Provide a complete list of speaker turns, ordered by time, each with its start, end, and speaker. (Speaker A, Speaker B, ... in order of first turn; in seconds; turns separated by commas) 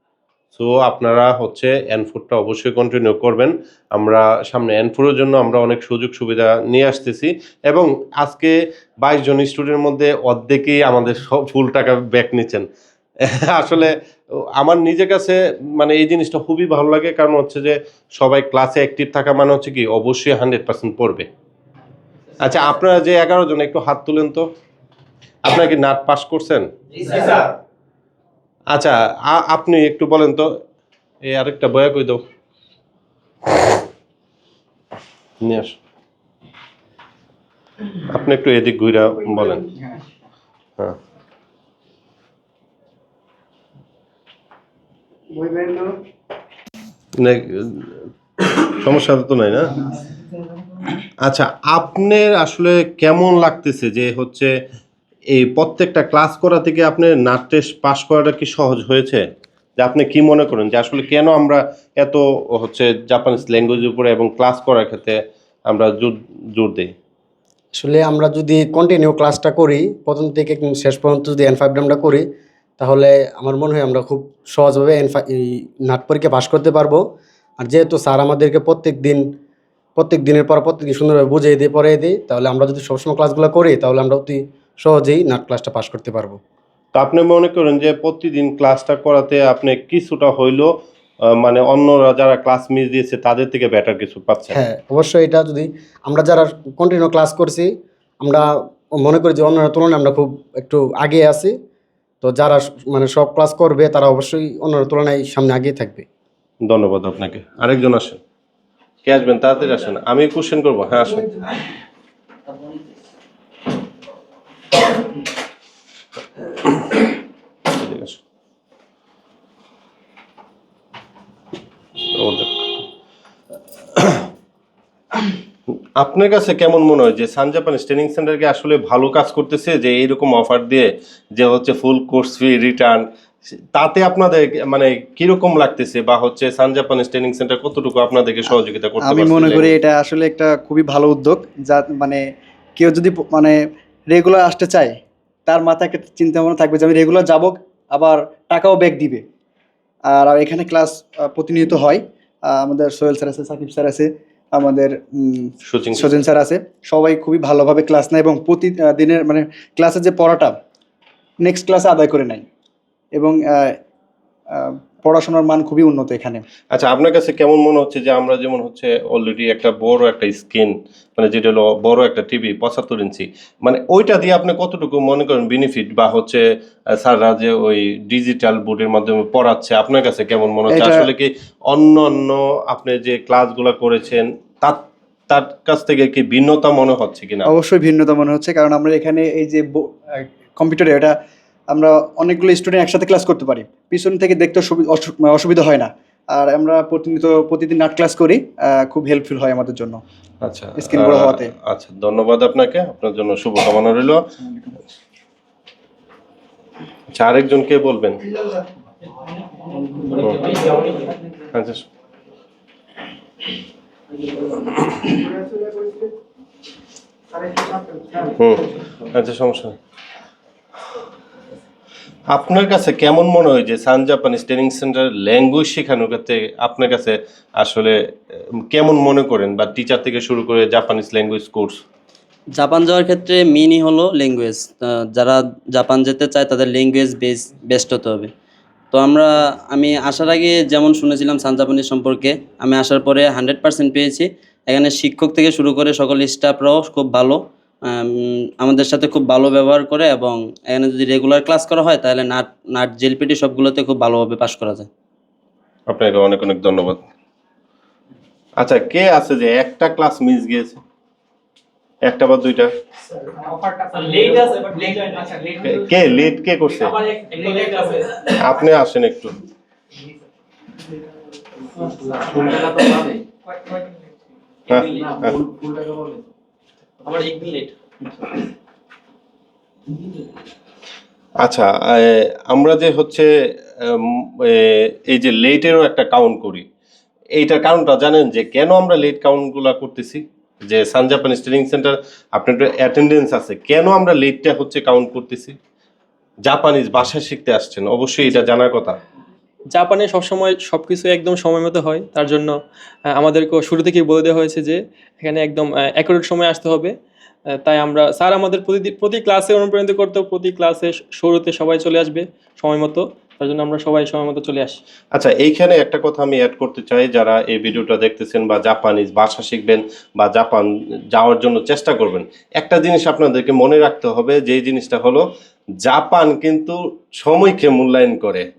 Speaker A: 0.5-12.7, Speaker A: 13.2-13.9, Speaker A: 14.6-21.3, Speaker A: 22.4-24.4, Speaker A: 25.4-26.6, Speaker A: 28.7-30.4, Speaker A: 31.3-32.2, Speaker A: 35.4-35.7, Speaker A: 38.1-39.6, Speaker B: 45.3-45.9, Speaker A: 47.2-47.9, Speaker A: 48.7-49.7, Speaker A: 51.2-54.5, Speaker A: 55.3-59.2, Speaker A: 59.8-65.2, Speaker A: 65.7-66.9, Speaker C: 67.8-72.2, Speaker C: 72.8-77.0, Speaker C: 77.6-79.2, Speaker C: 80.0-86.4, Speaker A: 86.9-90.7, Speaker A: 91.4-94.6, Speaker C: 94.5-97.7, Speaker C: 99.0-101.5, Speaker C: 102.2-106.0, Speaker A: 106.7-108.2, Speaker A: 109.0-111.3, Speaker A: 117.7-118.2, Speaker A: 122.1-122.8, Speaker A: 124.0-124.2, Speaker A: 126.0-133.0, Speaker A: 133.7-139.7, Speaker B: 139.0-142.2, Speaker B: 142.8-144.9, Speaker B: 145.5-149.2, Speaker B: 150.1-160.6, Speaker A: 155.7-156.2, Speaker B: 161.4-162.4, Speaker B: 163.1-163.8, Speaker B: 164.5-166.4, Speaker A: 166.7-176.4, Speaker A: 177.0-187.5, Speaker B: 180.7-181.1, Speaker B: 187.4-191.1, Speaker B: 191.7-200.0, Speaker A: 200.4-204.2, Speaker B: 200.8-201.5, Speaker B: 204.4-204.7, Speaker A: 207.1-208.2, Speaker A: 210.2-210.6, Speaker A: 211.5-211.8, Speaker B: 215.0-216.1, Speaker B: 217.3-218.3, Speaker A: 218.4-219.7, Speaker A: 222.3-227.9, Speaker A: 228.7-231.8, Speaker D: 232.5-238.3, Speaker D: 238.9-254.9, Speaker A: 255.9-257.0, Speaker A: 258.6-260.8, Speaker A: 262.0-262.7, Speaker E: 263.7-265.5, Speaker A: 265.6-267.0, Speaker E: 267.2-268.1, Speaker A: 268.3-269.4, Speaker A: 274.7-275.4, Speaker E: 277.1-277.5, Speaker A: 281.4-283.3, Speaker A: 283.8-286.6, Speaker A: 287.4-295.6, Speaker A: 296.4-299.0, Speaker F: 299.7-302.6, Speaker F: 303.1-306.9, Speaker F: 307.6-314.8, Speaker A: 315.1-325.2, Speaker A: 325.8-328.4